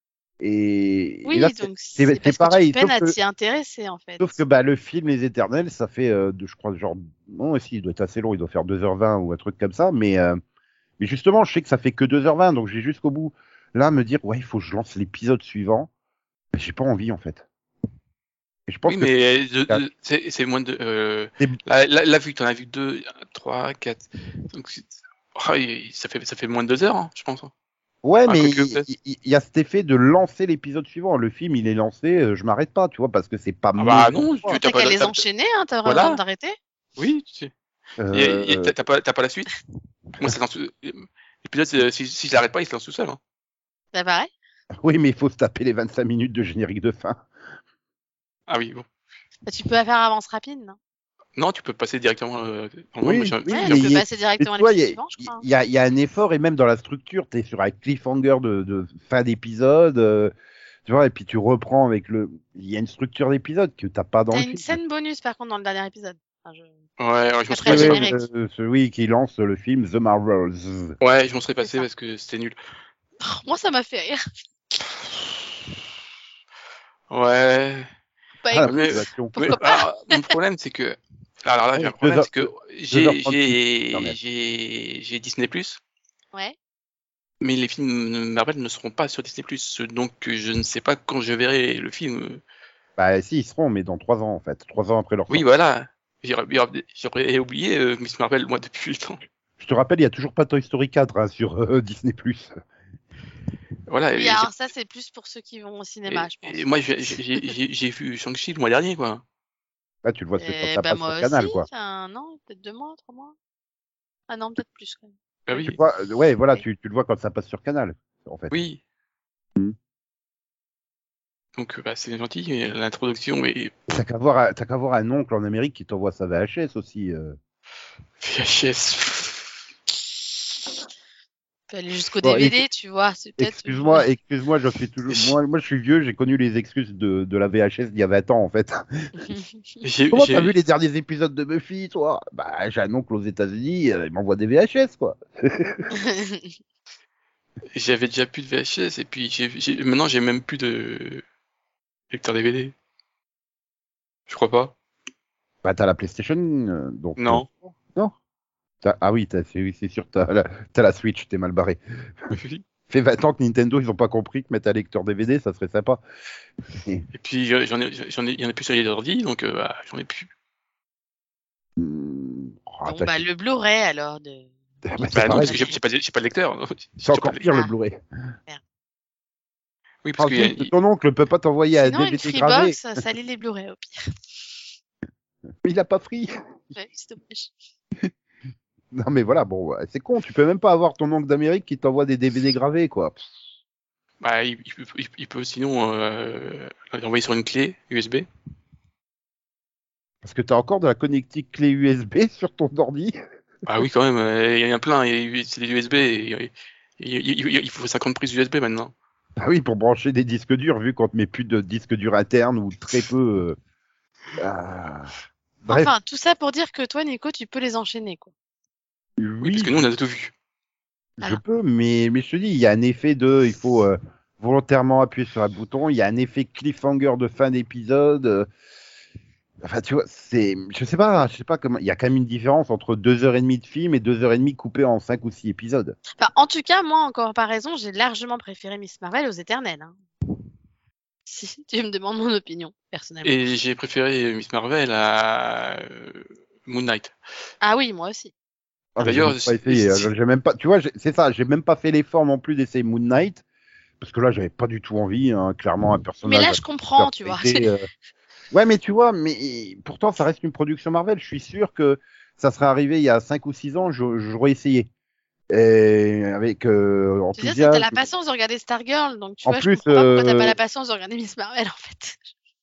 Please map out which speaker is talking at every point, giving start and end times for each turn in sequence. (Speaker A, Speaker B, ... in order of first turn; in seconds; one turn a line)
Speaker A: 0.4-3.1
Speaker B: 1.2-4.4
Speaker A: 4.2-10.4
Speaker A: 11.0-15.9
Speaker A: 16.5-17.4
Speaker A: 18.7-19.1
Speaker C: 18.8-27.5
Speaker A: 28.0-34.6
Speaker C: 28.3-28.9
Speaker C: 33.8-35.2
Speaker B: 34.5-36.6
Speaker C: 35.9-36.2
Speaker C: 37.0-37.5
Speaker A: 38.0-38.7
Speaker C: 38.1-39.5
Speaker C: 40.2-43.2
Speaker B: 43.9-44.3
Speaker A: 44.8-47.2
Speaker C: 48.5-48.9
Speaker B: 49.5-50.8
Speaker C: 51.4-53.9
Speaker A: 53.0-60.3
Speaker B: 53.5-55.4
Speaker A: 60.9-64.8
Speaker B: 64.3-66.7
Speaker C: 67.0-68.1
Speaker B: 67.5-68.2
Speaker A: 67.7-71.0
Speaker C: 71.0-72.6
Speaker B: 73.2-74.2
Speaker C: 77.1-77.9
Speaker B: 78.4-80.2
Speaker A: 78.5-79.3
Speaker C: 78.7-85.8
Speaker A: 81.8-84.2
Speaker C: 87.4-92.4
Speaker A: 93.0-95.5
Speaker C: 95.3-99.2
Speaker A: 99.6-102.5
Speaker C: 103.9-104.5
Speaker B: 104.2-106.7
Speaker C: 106.1-109.2
Speaker A: 110.0-111.7
Speaker B: 110.4-113.3
Speaker B: 114.3-115.7
Speaker C: 115.5-115.8
Speaker A: 115.6-118.6
Speaker C: 118.5-118.8
Speaker C: 121.6-123.7
Speaker A: 123.9-127.4
Speaker C: 128.2-129.5
Speaker B: 131.7-134.1
Speaker A: 132.2-132.6
Speaker A: 133.4-138.8
Speaker B: 139.2-139.6
Speaker C: 139.8-140.6
Speaker A: 140.1-145.9
Speaker B: 145.9-146.5
Speaker C: 147.7-151.2
Speaker C: 152.1-152.7
Speaker C: 154.3-154.7
Speaker A: 155.6-158.1
Speaker C: 157.2-157.5
Speaker A: 158.8-162.3
Speaker C: 162.3-162.6
Speaker A: 162.9-166.0
Speaker A: 166.7-167.0
Speaker C: 167.1-170.3
Speaker A: 171.8-173.2
Speaker B: 172.9-175.8
Speaker A: 174.9-175.6
Speaker C: 175.1-177.5
Speaker A: 177.0-178.0
Speaker C: 180.0-180.7
Speaker A: 180.2-183.0
Speaker B: 181.8-183.9
Speaker A: 185.6-186.3
Speaker B: 186.8-187.5
Speaker A: 188.9-193.2
Speaker C: 194.2-198.3
Speaker A: 200.2-203.1
Speaker C: 203.7-208.9
Speaker A: 209.4-213.6
Speaker A: 214.4-215.1
Speaker A: 215.6-215.9
Speaker B: 215.7-218.3
Speaker A: 219.2-219.8
Speaker C: 219.4-220.3
Speaker A: 221.2-228.5
Speaker A: 229.6-236.0
Speaker B: 236.2-240.0
Speaker B: 241.3-243.4
Speaker C: 243.2-247.1
Speaker B: 247.6-248.3
Speaker A: 249.0-253.4
Speaker C: 249.0-250.1
Speaker A: 254.0-257.9
Speaker B: 256.2-257.7
Speaker A: 258.5-264.9
Speaker A: 265.5-268.1
Speaker B: 267.4-272.2
Speaker A: 269.4-270.6